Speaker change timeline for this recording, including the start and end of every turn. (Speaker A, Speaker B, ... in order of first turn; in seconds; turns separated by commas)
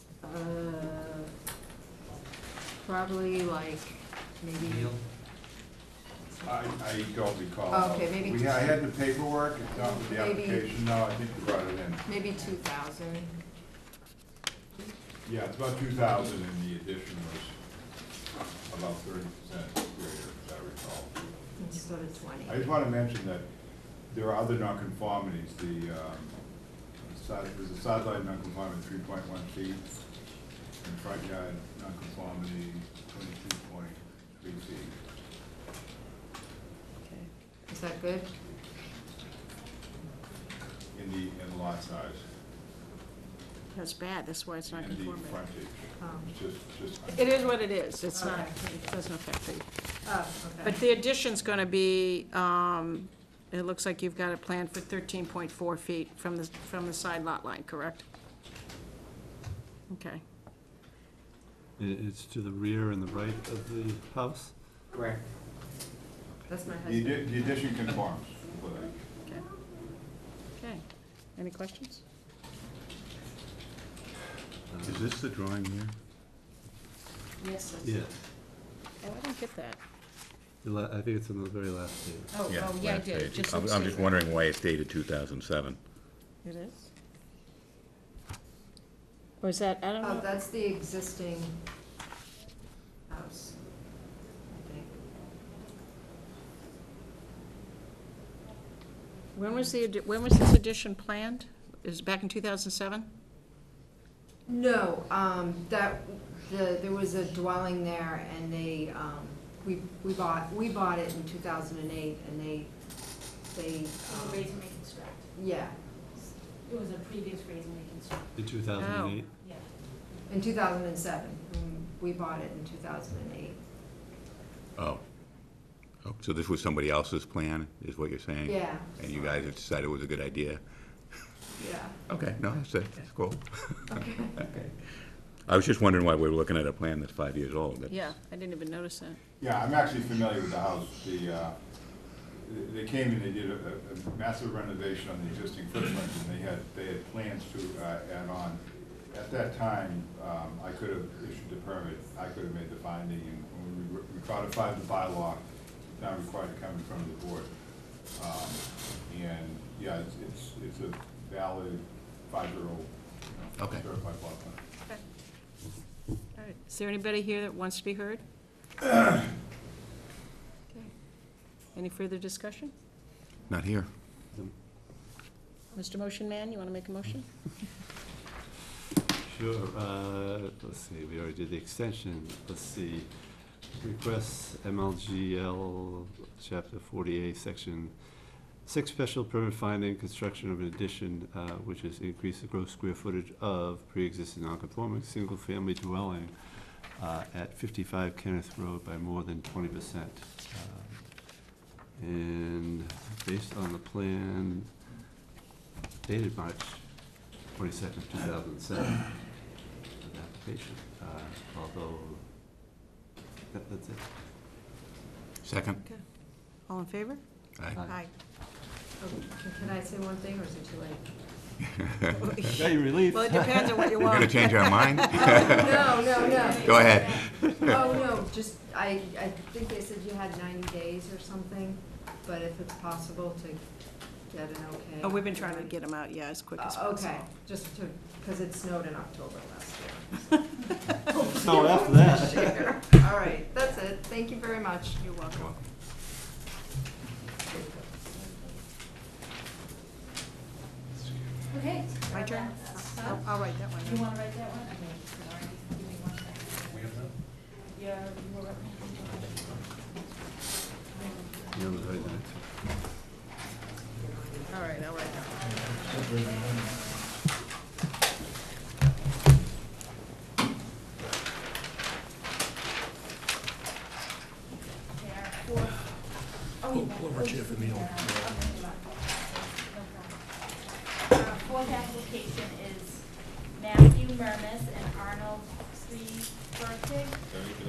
Speaker A: 0.2-1.3, Speaker A: 2.8-5.0, Speaker B: 6.4-12.1, Speaker A: 7.7-8.6, Speaker A: 9.7-10.7, Speaker A: 12.1-13.3, Speaker B: 15.2-17.5, Speaker B: 18.7-21.3, Speaker A: 21.6-22.7, Speaker B: 22.4-23.4, Speaker B: 24.1-26.4, Speaker B: 27.0-29.9, Speaker B: 30.8-34.9, Speaker C: 37.0-37.3, Speaker A: 37.7-38.3, Speaker B: 40.9-42.2, Speaker C: 43.7-45.4, Speaker B: 44.7-47.5, Speaker A: 46.0-46.3, Speaker C: 47.1-49.7, Speaker A: 48.1-48.5, Speaker A: 50.0-50.8, Speaker C: 50.6-58.0, Speaker C: 59.9-60.2, Speaker D: 61.8-64.8, Speaker A: 64.9-65.2, Speaker A: 66.5-67.5, Speaker B: 66.8-69.0, Speaker C: 70.5-72.0, Speaker D: 74.7-75.1, Speaker E: 74.8-75.9, Speaker C: 77.4-77.9, Speaker D: 77.8-78.2, Speaker C: 79.0-79.8, Speaker D: 80.6-82.4, Speaker C: 82.3-84.1, Speaker E: 82.5-85.8, Speaker C: 86.4-86.9, Speaker C: 89.4-90.3, Speaker A: 90.0-91.6, Speaker A: 93.1-93.6, Speaker A: 94.5-95.0, Speaker C: 99.3-103.1, Speaker A: 104.5-114.7, Speaker A: 115.3-116.0, Speaker D: 118.3-119.3, Speaker C: 118.8-119.2, Speaker A: 120.3-123.6, Speaker E: 124.8-125.1, Speaker E: 126.0-131.3, Speaker A: 128.4-129.2, Speaker A: 131.5-132.0, Speaker E: 132.1-134.7, Speaker A: 133.9-134.4, Speaker E: 135.4-138.1, Speaker C: 137.9-139.2, Speaker B: 139.4-141.6, Speaker B: 142.2-157.5, Speaker B: 158.1-164.6, Speaker E: 163.6-163.8, Speaker C: 166.3-168.2, Speaker C: 171.7-172.7, Speaker E: 173.5-173.9, Speaker C: 175.7-177.3, Speaker D: 179.2-204.8, Speaker D: 206.0-212.6, Speaker D: 213.5-214.1, Speaker E: 215.4-215.8, Speaker C: 215.8-218.1, Speaker D: 217.7-218.1, Speaker A: 219.0-221.1, Speaker E: 221.7-222.1, Speaker C: 222.2-225.4, Speaker D: 222.5-224.3, Speaker E: 224.0-225.8, Speaker A: 225.4-233.6, Speaker F: 226.2-228.0, Speaker E: 226.6-227.8, Speaker D: 227.1-227.5, Speaker A: 234.3-235.7, Speaker C: 235.0-237.2, Speaker A: 236.6-245.2, Speaker D: 241.1-243.1, Speaker C: 245.0-245.5, Speaker F: 251.6-253.2, Speaker C: 252.1-254.0, Speaker F: 254.1-256.7, Speaker F: 257.8-259.4, Speaker D: 261.5-262.7, Speaker C: 264.5-265.4, Speaker F: 265.4-267.0, Speaker F: 274.9-275.9, Speaker F: 276.6-278.8, Speaker F: 279.7-280.1, Speaker F: 281.1-287.2